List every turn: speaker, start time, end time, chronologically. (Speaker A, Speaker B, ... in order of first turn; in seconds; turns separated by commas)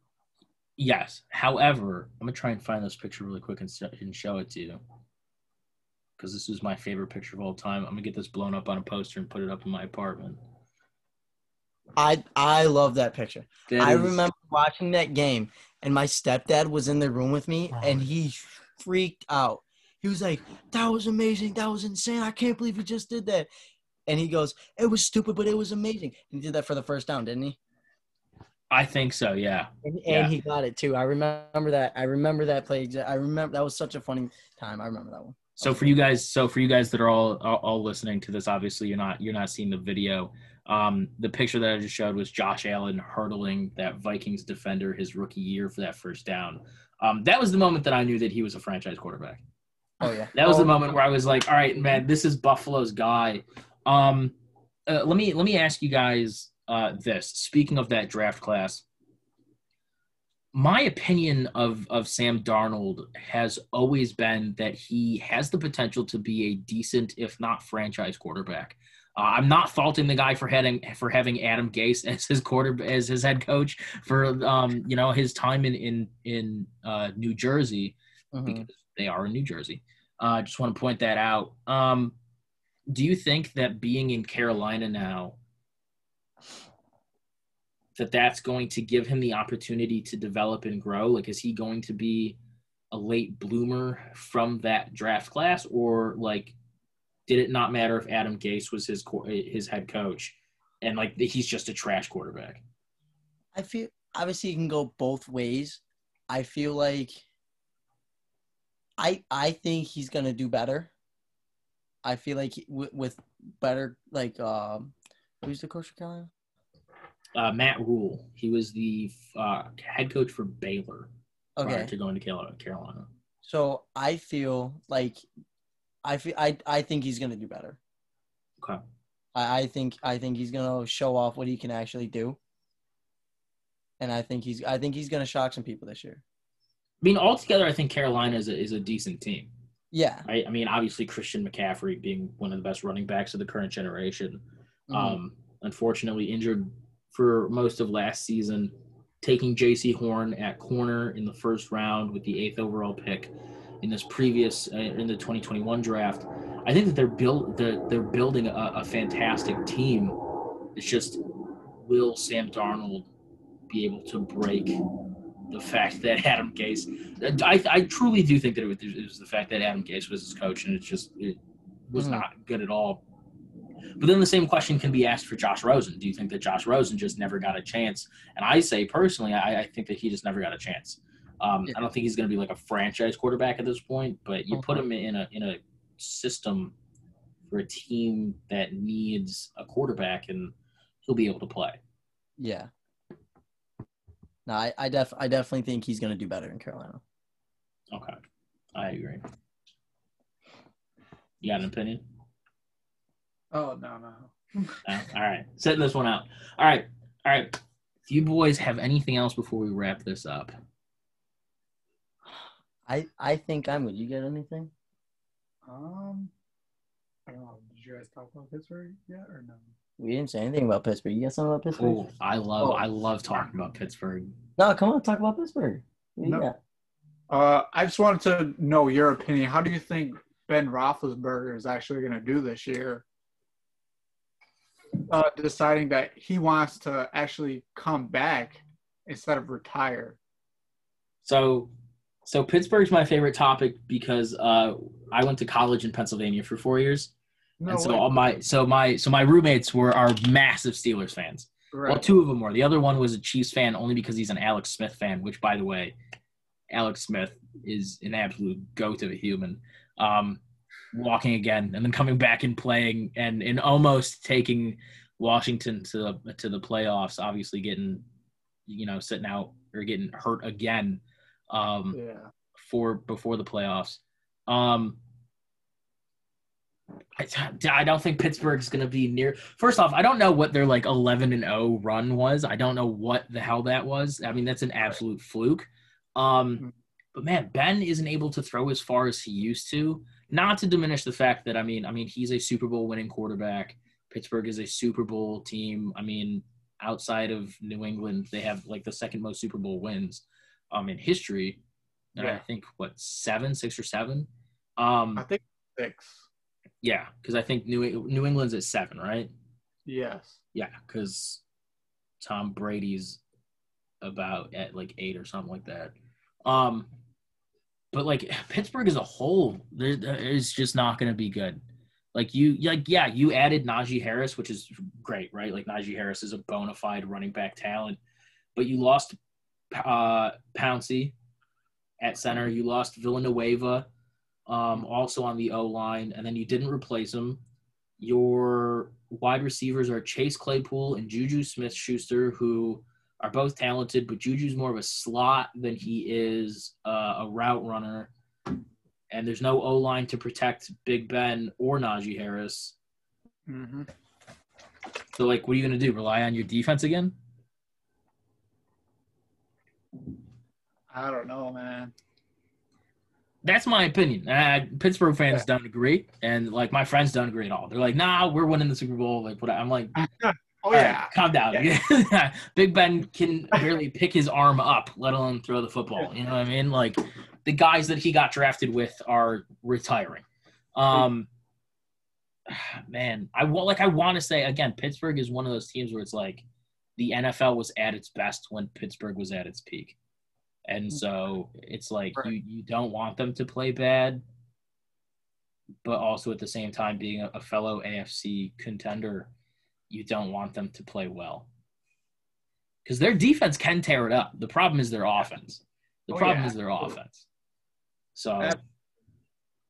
Speaker A: 0.8-4.8, Speaker A: 6.2-10.4, Speaker B: 12.0-23.5, Speaker A: 13.7-14.2, Speaker B: 24.1-27.6, Speaker A: 28.7-30.3, Speaker B: 29.8-36.0, Speaker A: 35.6-49.4, Speaker B: 50.0-50.7, Speaker A: 50.3-54.4, Speaker A: 54.9-58.9, Speaker A: 60.5-82.1, Speaker B: 78.3-78.7, Speaker A: 82.9-85.4, Speaker A: 88.0-92.4, Speaker A: 92.9-96.5, Speaker A: 97.3-102.6, Speaker B: 103.5-107.2, Speaker B: 109.0-110.9, Speaker B: 112.0-116.3, Speaker A: 117.4-121.1, Speaker B: 121.6-121.9, Speaker A: 121.6-123.1, Speaker B: 123.4-125.2, Speaker B: 126.0-127.8, Speaker B: 129.3-132.4, Speaker B: 134.0-136.2, Speaker A: 137.0-139.5, Speaker B: 139.9-140.3, Speaker A: 140.3-160.2, Speaker B: 144.9-145.2, Speaker A: 160.7-161.2, Speaker A: 161.7-163.1, Speaker A: 163.7-164.8, Speaker A: 165.5-173.0, Speaker B: 171.9-172.2, Speaker A: 174.0-186.7, Speaker B: 184.5-184.8, Speaker A: 187.5-190.5, Speaker A: 191.0-191.8, Speaker B: 192.4-192.7, Speaker B: 194.4-197.0, Speaker A: 198.7-199.2, Speaker A: 201.4-202.0, Speaker C: 203.5-204.8, Speaker A: 204.8-207.6, Speaker A: 208.1-210.5, Speaker B: 212.3-214.7, Speaker C: 215.6-216.3, Speaker C: 217.3-219.7, Speaker B: 220.0-222.0, Speaker A: 221.8-224.3, Speaker B: 224.6-226.6, Speaker C: 227.3-233.1, Speaker C: 235.1-240.2, Speaker A: 241.2-241.7, Speaker A: 242.2-247.1, Speaker C: 247.6-248.2, Speaker A: 247.7-255.9, Speaker C: 251.7-252.1, Speaker A: 256.7-260.4, Speaker A: 260.9-268.1, Speaker A: 268.7-272.0, Speaker C: 271.9-272.3, Speaker A: 272.6-275.0, Speaker A: 277.2-301.6, Speaker C: 302.2-302.4, Speaker A: 302.2-305.2, Speaker C: 305.2-306.3, Speaker A: 306.8-309.3, Speaker C: 309.9-310.4, Speaker A: 310.5-311.4, Speaker A: 312.2-313.2, Speaker A: 314.0-315.9, Speaker A: 316.4-316.9, Speaker A: 317.9-321.6, Speaker A: 322.1-328.0, Speaker A: 328.6-329.2, Speaker A: 329.7-331.1, Speaker A: 332.0-333.9, Speaker A: 334.5-337.4, Speaker A: 338.0-348.1, Speaker A: 349.1-352.7, Speaker C: 353.5-353.9, Speaker A: 355.1-357.1, Speaker C: 360.9-361.9, Speaker A: 363.4-370.0, Speaker C: 370.0-371.7, Speaker A: 370.7-381.3, Speaker A: 382.5-386.4, Speaker A: 387.0-390.0, Speaker A: 390.7-394.2, Speaker A: 395.8-399.3, Speaker A: 399.9-401.5, Speaker A: 402.9-407.3, Speaker C: 406.1-406.6, Speaker A: 408.1-408.6